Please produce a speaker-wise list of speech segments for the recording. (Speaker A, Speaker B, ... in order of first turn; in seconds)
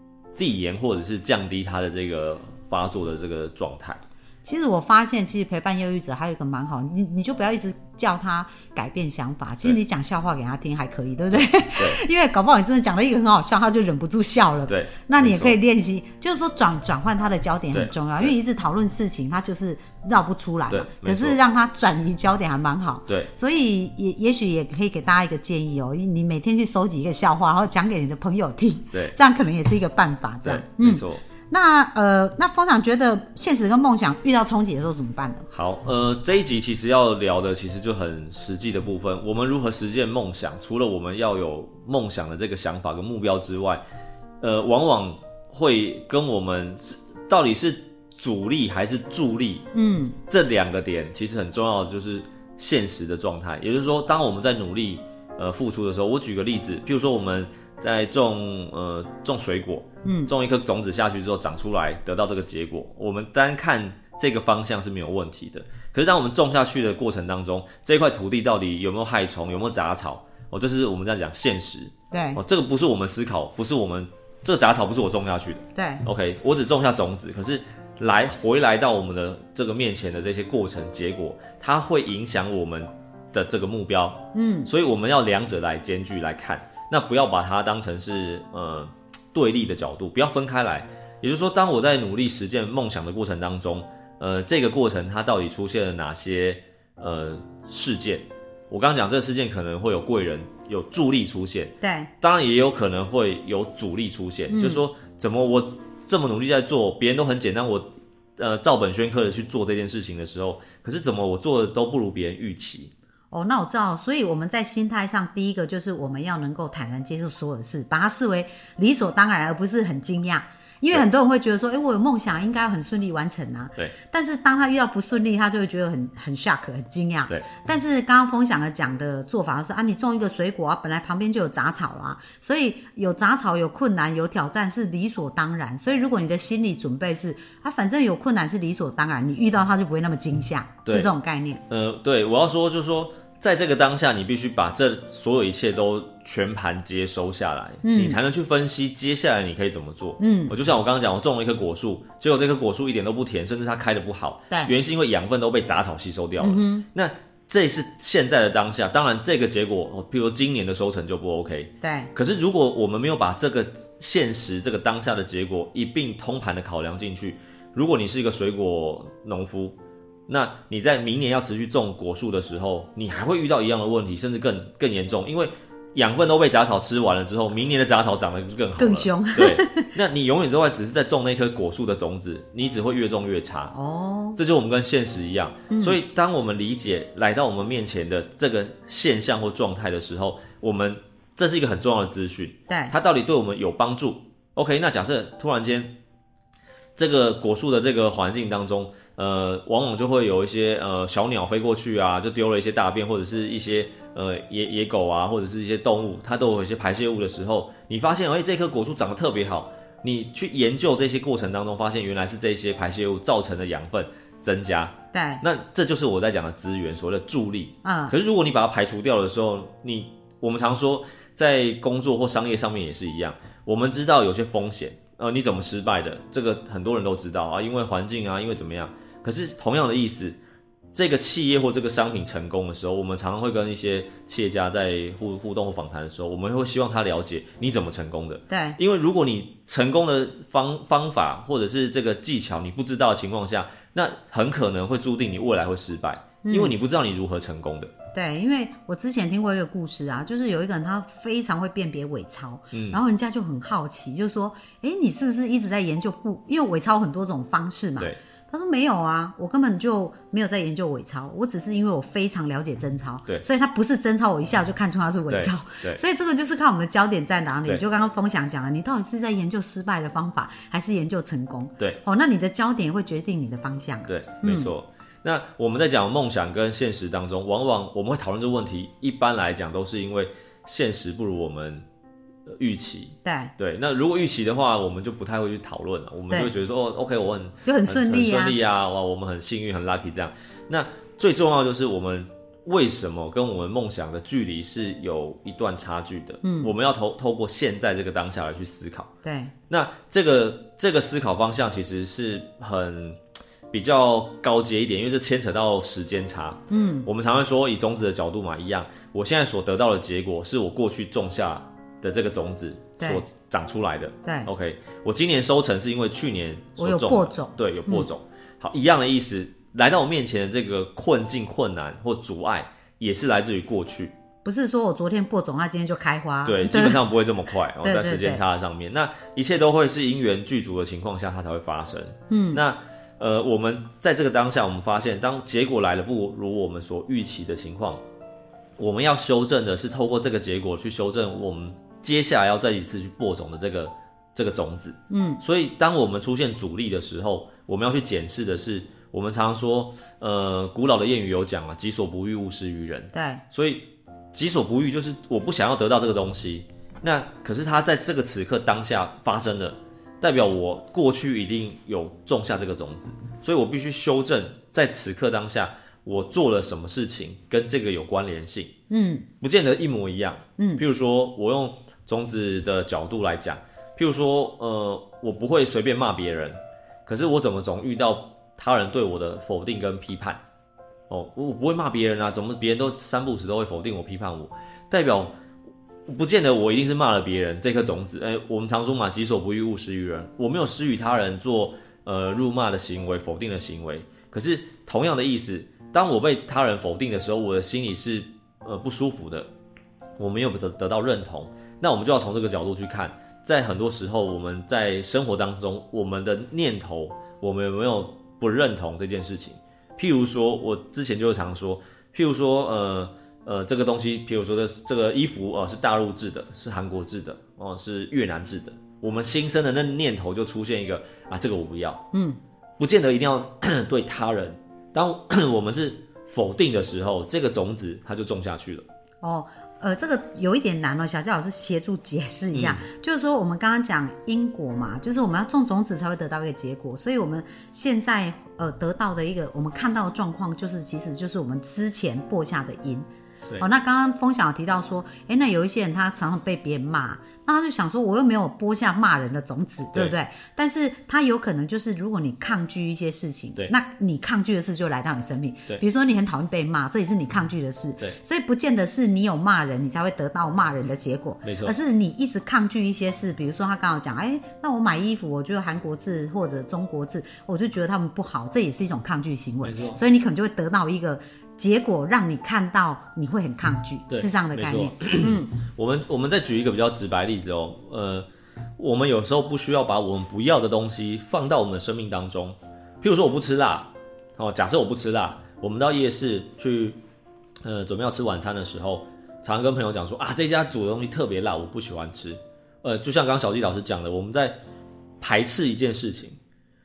Speaker A: 0.4-4.0, 11.3-12.0, 14.7-15.6, 17.7-18.3, 20.7-21.4, 30.4-31.2, 35.5-43.8, 44.4-49.6, 50.3-112.9, 140.8-141.1, 141.7-169.8, 170.3-183.7, 184.3-195.9, 196.9-230.4, 230.9-247.9, 252.7-253.0, 265.3-266.0, 274.1-281.9, 282.5-299.1, 299.7-303.2, 303.7-324.1, 326.4-338.0, 338.8-368.7, 369.4-380.4, 381.1-385.3, 386.1-399.5, 400.2-422.0, 422.8-428.8, 432.5-432.9, 461.4-461.7, 469.6-470.0, 474.1-478.2, 478.8-487.0, 487.6-494.6, 495.2-496.4
Speaker B: 4.4-35.5, 49.7-50.1, 60.0-60.3, 72.1-72.4, 75.8-76.0, 84.3-84.7, 101.8-102.1, 104.5-104.8, 113.3-141.6, 147.8-148.2, 150.2-150.5, 156.4-156.8, 161.8-162.1, 178.8-179.9, 183.7-184.4, 185.7-186.0, 192.7-192.9, 215.1-215.4, 217.8-218.1, 238.5-238.8, 246.4-246.7, 248.1-274.7, 283.2-283.5, 287.6-288.6, 296.4-296.7, 299.2-299.5, 306.7-307.1, 314.2-314.5, 316.8-318.1, 324.4-327.0, 327.8-328.4, 332.3-332.6, 345.1-345.4, 353.1-353.4, 368.9-369.3, 370.6-370.8, 422.1-422.4, 429.2-443.1, 443.6-475.5